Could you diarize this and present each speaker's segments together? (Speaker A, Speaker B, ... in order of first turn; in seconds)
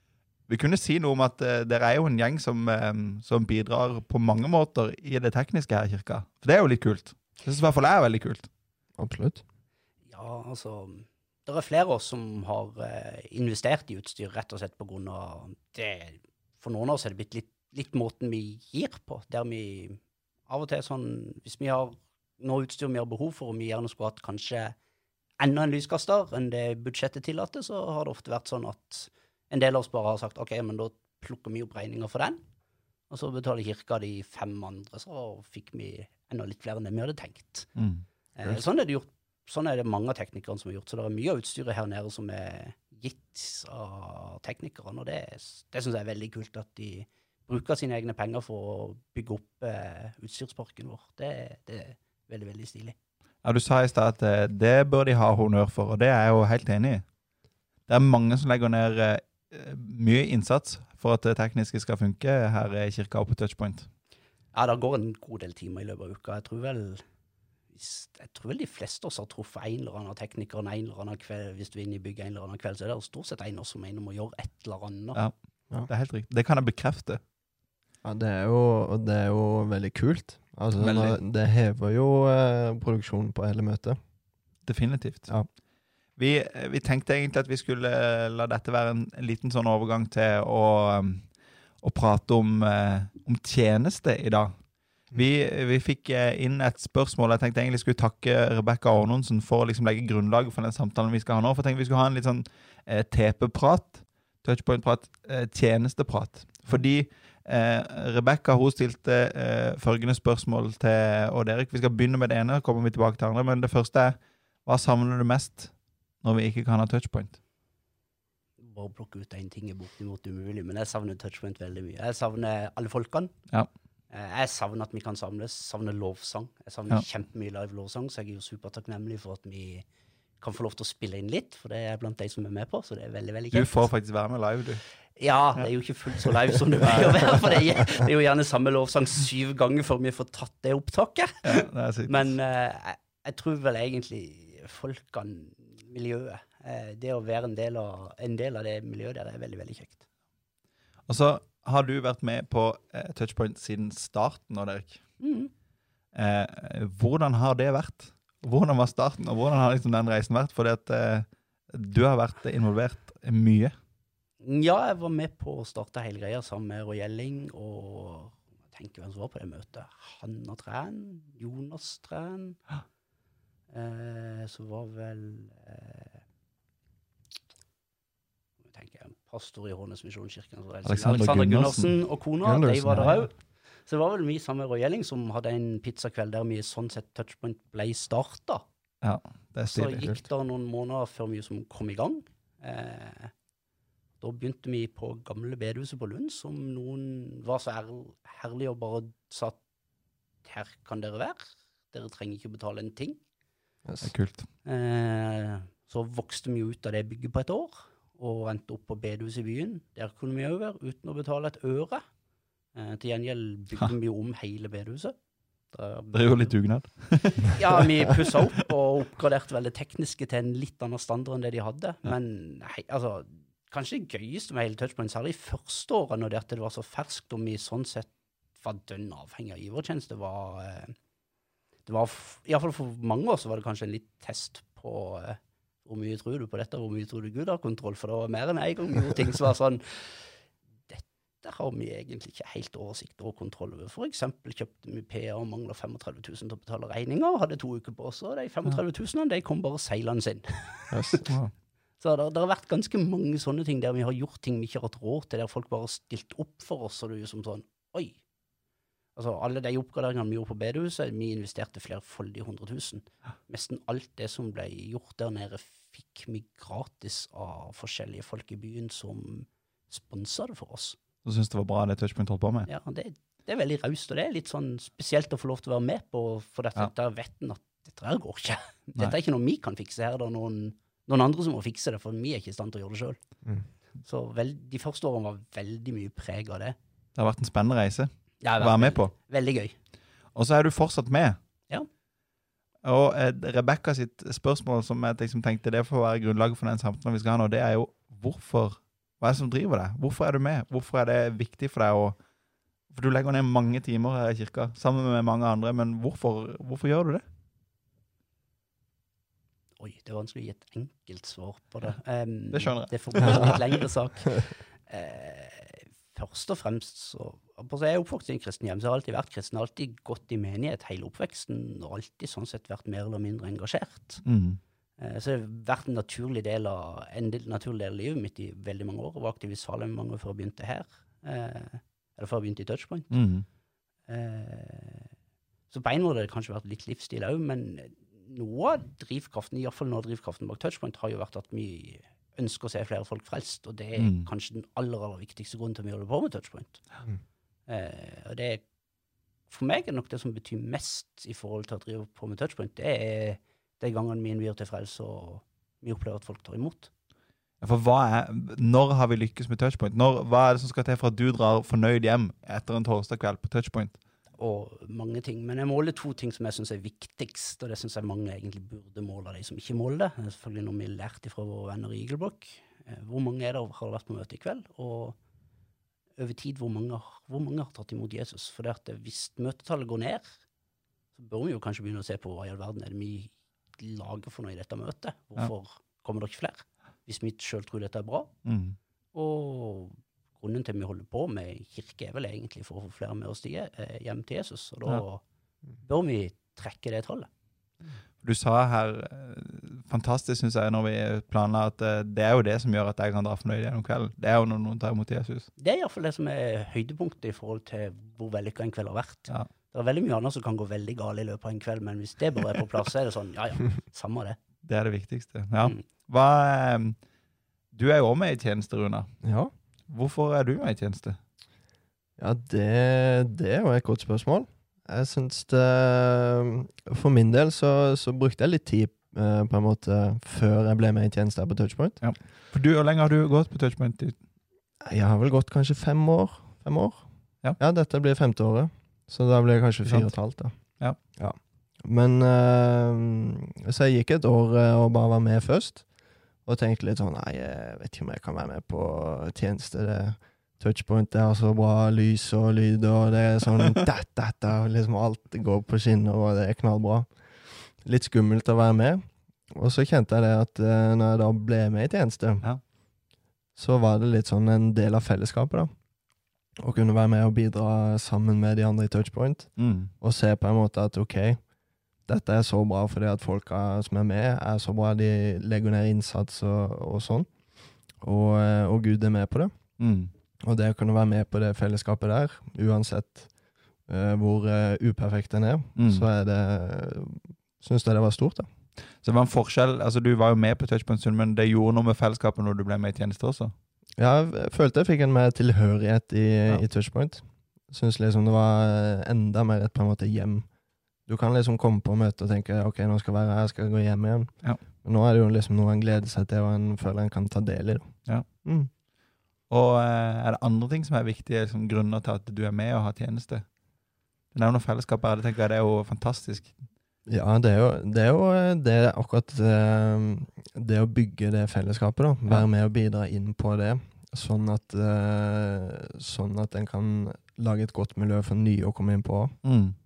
Speaker A: 0.5-8.5, 37.8-38.0, 53.4-57.0, 57.9-63.9, 75.9-77.2, 80.8-81.2, 84.6-85.3, 86.2-91.2, 91.8-94.5, 95.1-115.7, 116.2-117.4, 133.5-134.8, 136.8-137.5, 141.4-142.3, 151.1-155.0, 156.1-163.7, 180.8-182.0, 189.0-190.1, 204.0-204.5, 216.1-218.3, 251.3-251.5, 271.2-272.7, 287.1-289.1, 290.4-291.4, 292.8-302.1, 302.9-307.2, 312.5-313.8, 324.2-324.6, 333.1-333.5, 344.0-344.3, 357.6-364.0, 388.4-388.8, 398.2-405.5, 414.6-417.0, 417.7-419.1, 419.9-421.2, 432.0-434.1, 439.9-440.1, 469.6-469.9, 479.8-480.1, 485.8-486.1, 489.0-493.5, 509.5-513.5, 514.3-516.5, 529.4-529.8
Speaker B: 9.0-9.4, 78.0-84.0, 182.4-183.3, 203.9-204.1, 250.9-251.2, 419.2-419.5, 422.2-432.0, 434.9-437.0, 437.6-440.5, 441.2-445.9, 446.5-457.1, 457.8-462.4, 463.6-465.7, 466.6-471.4, 472.1-477.3, 478.0-479.5, 480.4-483.3, 483.9-488.5, 494.0-500.5, 501.1-504.3, 504.8-507.9, 508.4-508.7, 517.1-529.4
Speaker C: 10.1-24.8, 25.4-32.4, 33.1-37.7, 38.4-53.0, 64.5-67.0, 67.7-75.2, 118.6-123.3, 124.1-129.9, 130.4-133.8, 135.2-150.0, 155.2-155.5, 164.4-172.6, 173.7-176.2, 178.7-183.3, 183.9-188.7, 189.7-193.3, 194.2-199.6, 200.4-203.2, 204.6-212.0, 212.8-215.1, 215.7-216.6, 217.2-230.9, 231.9-240.3, 240.9-251.2, 252.0-258.2, 259.1-271.0, 272.7-283.2, 284.0-286.8, 288.4-289.8, 309.8-324.2, 325.0-333.2, 334.1-335.1, 335.7-346.8, 347.7-348.6, 349.5-356.9, 364.4-375.1, 376.2-380.4, 381.1-388.3, 389.1-395.2, 395.8-397.3, 405.6-414.4